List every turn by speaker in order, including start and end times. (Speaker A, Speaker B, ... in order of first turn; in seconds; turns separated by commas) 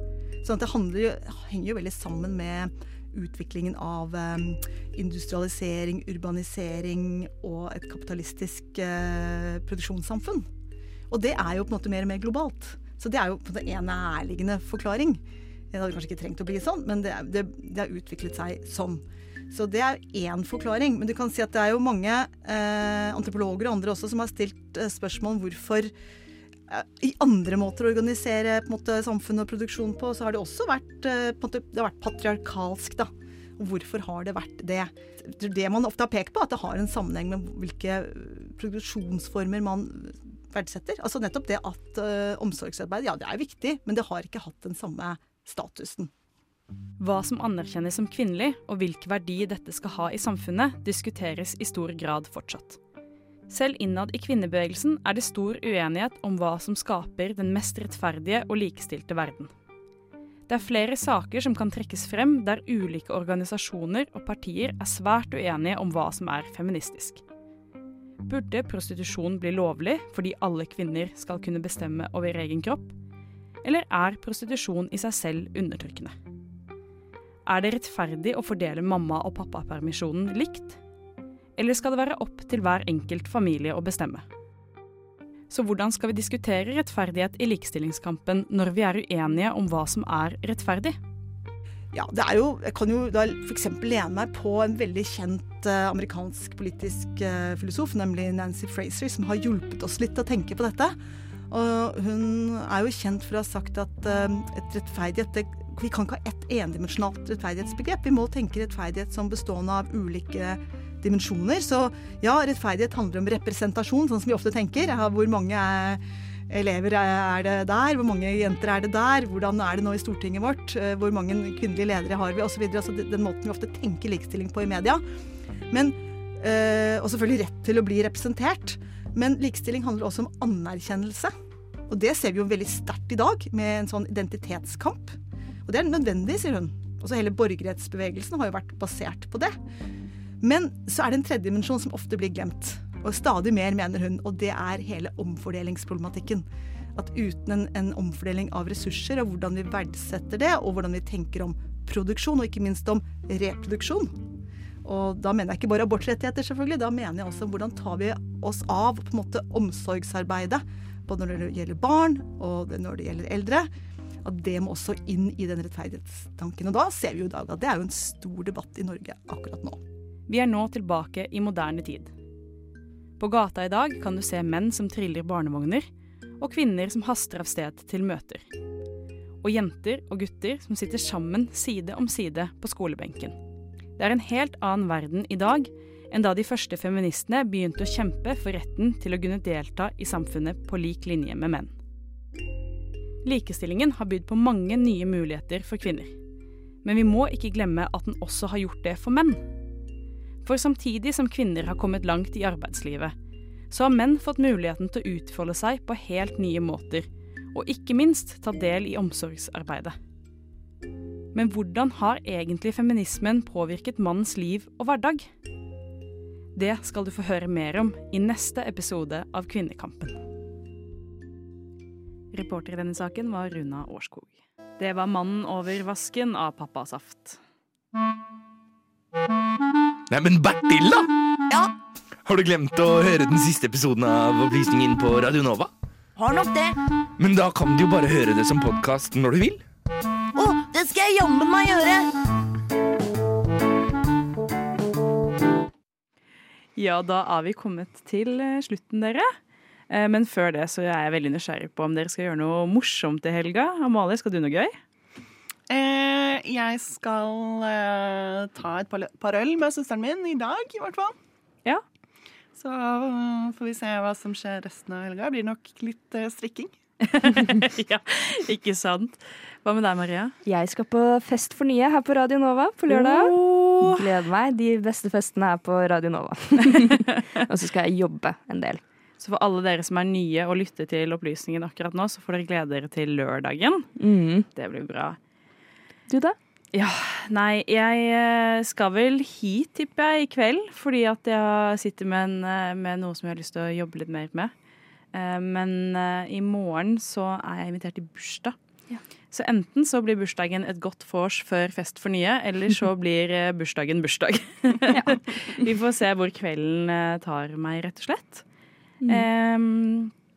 Speaker A: 0.4-10.5, Speaker A: 11.1-25.9, Speaker A: 26.7-46.1, Speaker B: 47.0-52.8, Speaker B: 53.5-59.5, Speaker B: 60.5-67.2, Speaker B: 68.2-72.9, Speaker B: 73.6-76.1, Speaker B: 77.5-80.8, Speaker B: 81.6-84.2, Speaker B: 85.5-91.0, Speaker A: 91.9-101.0, Speaker A: 101.5-125.0, Speaker A: 125.7-131.3, Speaker A: 131.9-139.6, Speaker A: 140.4-154.2, Speaker A: 154.8-163.7, Speaker A: 164.2-169.8, Speaker B: 170.3-172.1, Speaker B: 173.2-175.8, Speaker B: 176.4-178.4, Speaker B: 179.4-183.3, Speaker B: 184.0-191.7, Speaker B: 193.2-196.1, Speaker B: 196.8-199.4, Speaker B: 200.4-203.1, Speaker B: 203.7-209.9, Speaker B: 211.3-215.3, Speaker B: 216.6-220.2, Speaker B: 222.3-227.4, Speaker C: 230.1-231.1, Speaker C: 232.2-235.7, Speaker D: 236.2-236.7, Speaker C: 237.2-239.6, Speaker D: 240.3-242.1, Speaker B: 246.8-249.3, Speaker B: 249.9-254.7, Speaker E: 255.7-261.1, Speaker E: 262.6-266.7, Speaker B: 267.0-270.3, Speaker F: 270.4-278.8, Speaker B: 272.9-274.1, Speaker B: 279.2-283.9, Speaker F: 284.0-284.5, Speaker B: 284.5-285.2, Speaker F: 286.1-286.4, Speaker B: 286.7-294.5, Speaker B: 295.1-298.5, Speaker B: 299.3-308.4, Speaker F: 304.9-305.6, Speaker F: 309.0-309.3, Speaker B: 309.1-310.1